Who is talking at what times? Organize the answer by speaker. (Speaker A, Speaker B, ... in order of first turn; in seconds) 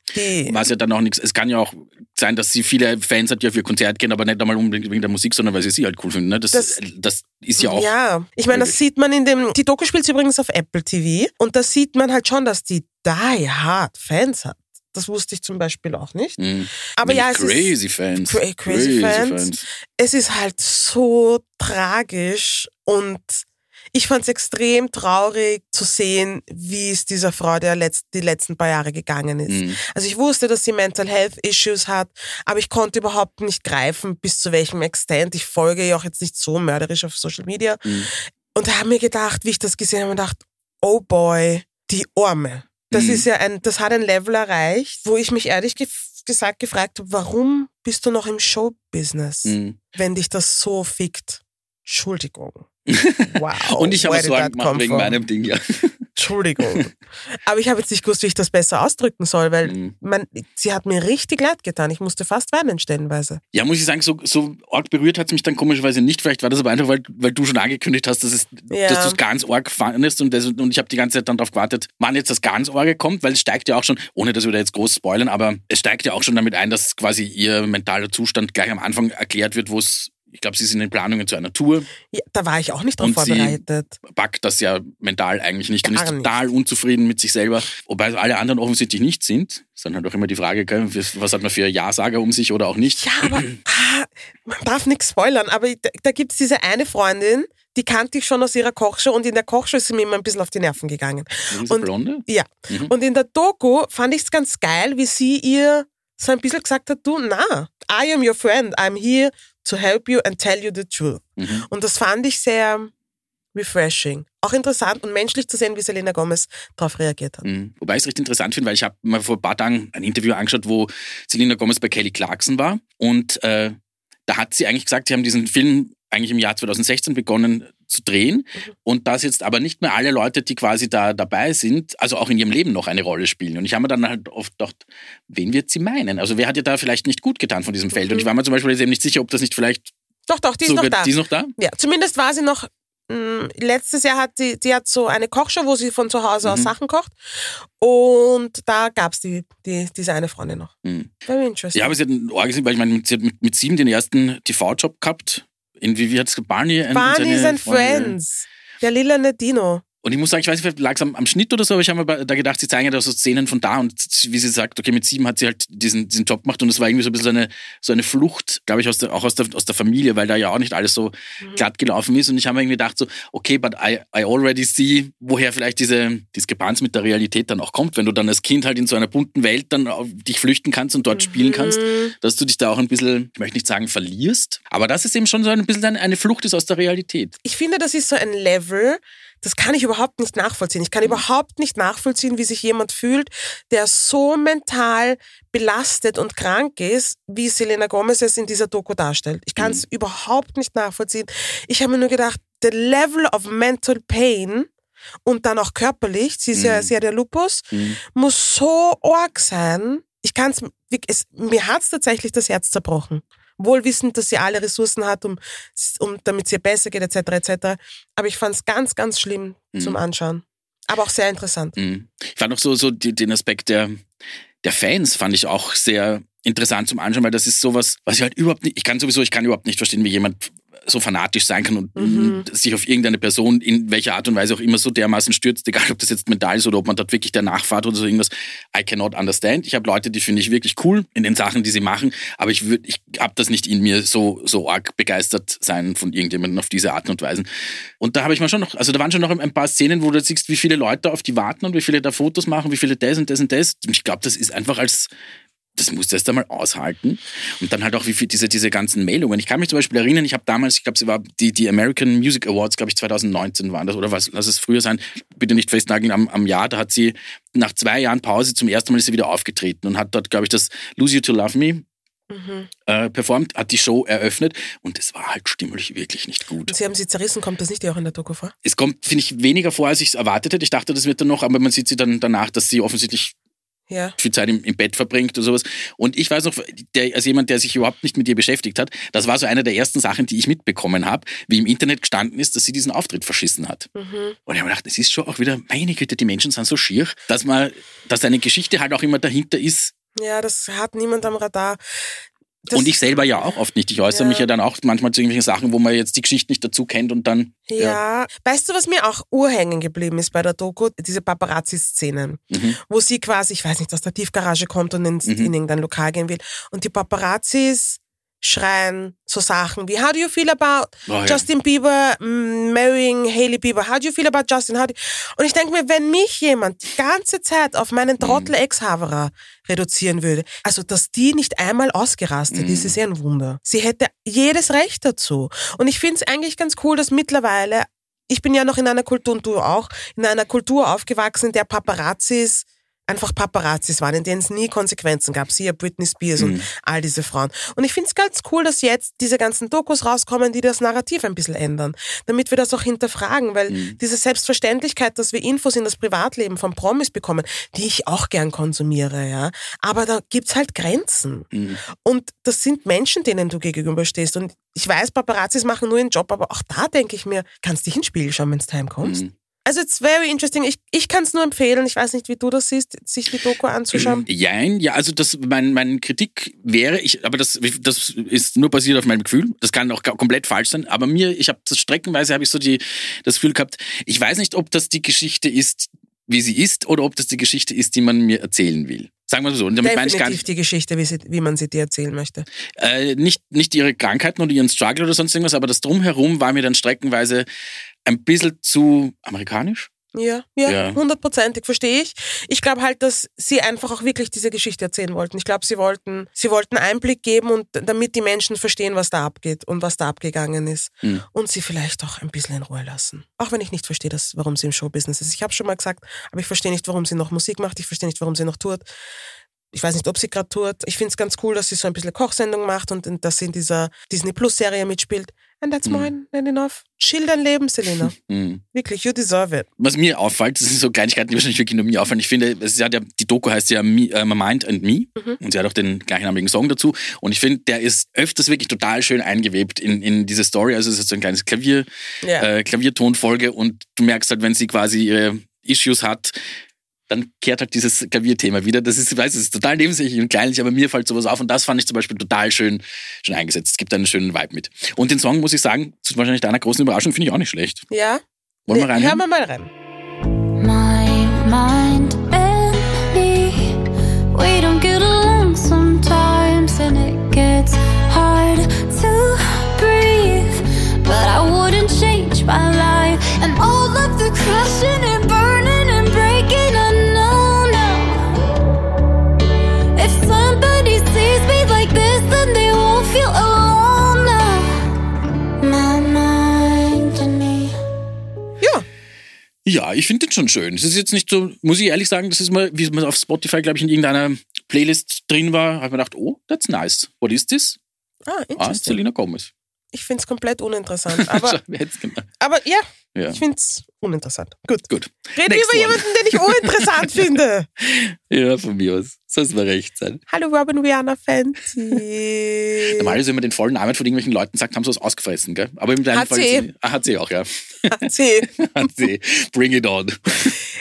Speaker A: 0.1-0.6, 7.6-52.7, 53.3-55.1, 56.1-63.4, 68.7-69.2, 82.1-84.0, 85.8-86.3, 93.0-112.9, 113.5-117.5, 138.0-138.3, 140.3-150.7, 151.2-152.0, 156.9-159.8, 181.2-182.1, 187.4-204.7, 205.2-221.7, 231.9-232.4, 272.3-272.7, 276.7-278.5, 283.9-284.1, 293.9-294.4, 300.1-301.8, 302.6-303.5, 304.1-304.5, 307.7-361.5, 362.0-374.2, 389.8-392.4, 400.1-418.9, 419.7-428.1, 428.7-429.7, 442.2-442.5, 457.9-459.7, 488.6-488.9, 498.3-499.0, 499.9-501.6, 502.4-507.7, 510.3-513.1, 516.1-516.7, 517.9-518.5
Speaker B: 0.4-7.9, 8.5-8.8, 16.4-19.6, 29.5-29.8, 37.8-38.1, 42.9-43.3, 49.5-49.8, 52.9-56.1, 59.6-59.9, 63.5-81.9, 83.0-93.6, 101.5-102.9, 111.4-111.7, 117.4-139.9, 140.7-141.5, 146.4-146.7, 150.8-151.1, 151.7-158.2, 160.0-187.3, 199.6-199.8, 206.5-206.9, 207.7-208.0, 221.8-224.0, 224.6-247.5, 248.0-255.1, 255.8-271.8, 272.9-276.8, 278.6-283.3, 284.2-293.9, 294.5-299.9, 302.7-308.0, 312.5-312.8, 321.1-321.4, 328.2-328.5, 332.5-333.0, 346.4-346.7, 353.7-354.0, 361.5-361.8, 369.0-369.3, 373.9-390.4, 392.8-397.5, 398.0-399.9, 400.6-401.0, 428.0-428.6, 429.8-441.9, 442.4-446.4, 447.1-457.8, 458.7-459.2, 489.6-497.8, 498.6-499.5, 501.2-502.3, 503.1-503.4, 504.9-507.2, 507.8-510.2, 512.9-517.9, 518.6-520.5
Speaker C: 460.6-463.8, 464.3-478.3, 479.9-484.8, 485.6-487.7